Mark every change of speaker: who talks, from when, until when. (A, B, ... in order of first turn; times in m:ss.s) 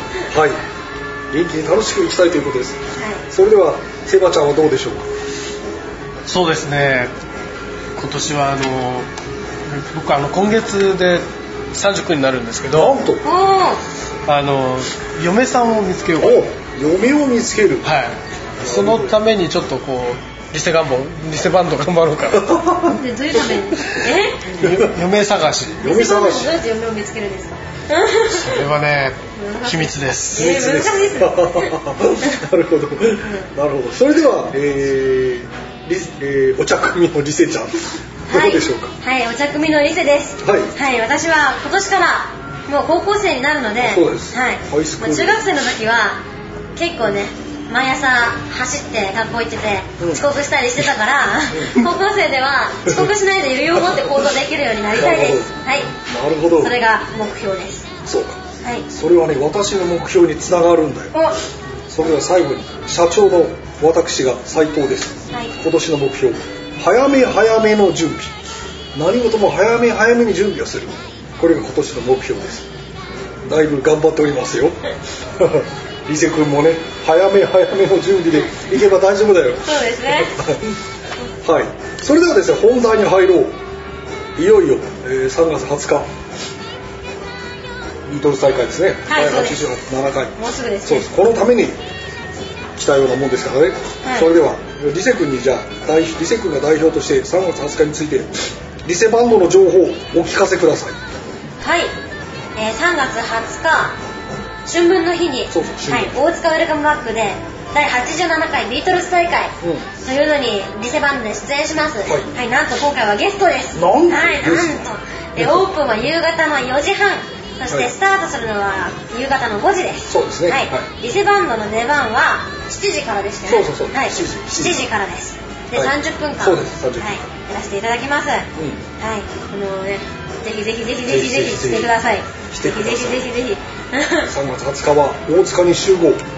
0:00.3-0:00.6 A
0:01.3-0:05.0 A
0:03.0-0:03.2 B
0:06.3-0:07.1 C
0:08.0-0:09.1 C
0:09.6-0:12.9 C
0:12.7-0:13.2 A
0:13.2-0:13.8 B
0:14.2-0:16.4 C
0:16.2-0:17.9 A
0:17.8-0:22.6 C
0:18.6-0:19.2 A
0:22.3-0:22.9 A
0:22.9-0:24.6 B
0:24.6-0:25.8 C
0:25.8-0:26.5 A
0:25.8-0:28.7 B
0:28.3-0:30.5 C
0:29.4-0:31.8 B
0:30.3-0:38.9 A
0:33.2-0:33.5 B
0:38.3-0:46.2 B
0:40.4-0:40.7 A
0:43.8-0:45.4 A
0:46.7-0:55.9 B
0:51.5-0:51.9 A
0:54.9-0:56.8 A
0:56.6-0:57.9 B
0:58.0-1:01.1 A
1:01.1-1:01.4 B
1:01.9-1:08.3 A
1:08.9-1:12.6 A
1:13.4-1:14.8 A
1:15.4-1:20.7 A
1:19.6-1:20.3 B
1:21.4-1:23.6 A
1:24.4-1:26.1 A
1:28.0-1:31.8 A
1:29.1-1:29.6 B
1:30.4-1:31.1 B
1:32.7-1:38.3 A
1:34.0-1:34.3 B
1:38.8-1:41.0 A
1:41.6-1:41.9 B
1:42.6-1:44.0 B
1:44.6-2:08.4 B
1:45.5-1:46.2 A
1:49.6-1:49.9 A
1:52.0-1:52.3 A
1:53.7-1:55.7 A
1:57.7-1:57.9 A
2:00.1-2:00.9 A
2:03.4-2:04.9 A
2:05.7-2:07.2 A
2:08.5-2:08.8 A
2:09.0-2:14.3 B
2:11.1-2:11.9 A
2:12.5-2:13.3 A
2:14.2-2:16.2 A